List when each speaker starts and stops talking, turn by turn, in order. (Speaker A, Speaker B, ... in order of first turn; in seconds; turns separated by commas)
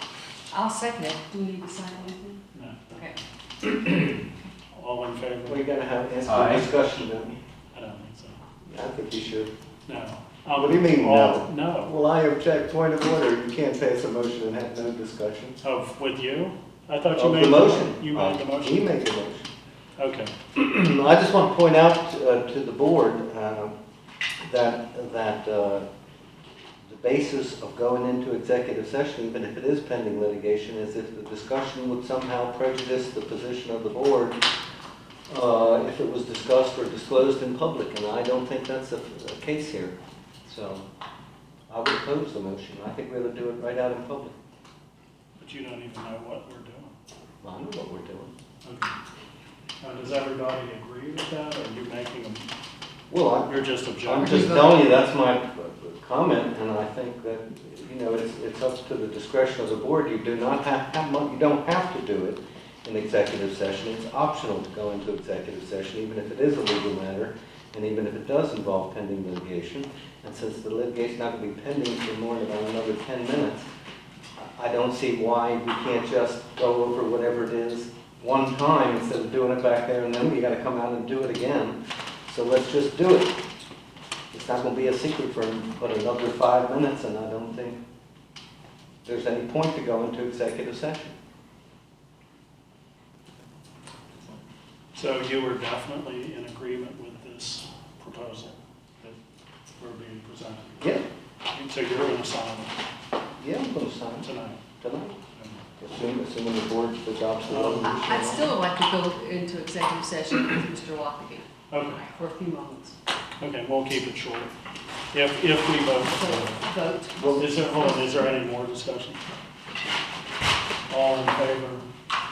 Speaker A: 0.5-2.4, Speaker B: 2.5-2.9, Speaker B: 3.6-4.1, Speaker B: 4.7-5.6, Speaker C: 5.5-7.4, Speaker B: 7.7-8.4, Speaker C: 8.7-9.5, Speaker B: 9.9-11.9, Speaker C: 10.5-15.6, Speaker B: 15.6-18.9, Speaker C: 17.1-19.5, Speaker B: 20.0-20.3, Speaker C: 20.5-23.7, Speaker C: 24.4-25.8, Speaker C: 26.8-34.4, Speaker C: 35.3-40.0, Speaker C: 40.5-40.8, Speaker C: 41.7-44.3, Speaker B: 45.4-46.9, Speaker C: 47.4-48.3, Speaker B: 48.6-48.9, Speaker B: 49.8-52.5, Speaker C: 53.1-73.7, Speaker B: 53.5-54.7, Speaker A: 54.3-54.6, Speaker C: 74.4-83.4, Speaker C: 84.3-87.8, Speaker C: 89.0-91.1, Speaker B: 94.9-99.2, Speaker B: 99.7-100.9, Speaker B: 101.5-102.8, Speaker C: 103.4-104.3, Speaker B: 104.2-104.6, Speaker C: 104.8-105.1, Speaker B: 105.4-105.6, Speaker C: 105.8-108.5, Speaker B: 107.5-107.9, Speaker A: 107.9-111.4, Speaker B: 111.7-112.0, Speaker A: 112.0-112.9, Speaker B: 113.4-114.5, Speaker B: 115.1-116.5, Speaker A: 116.1-118.0, Speaker C: 117.2-117.5, Speaker B: 117.3-119.2, Speaker B: 120.9-121.9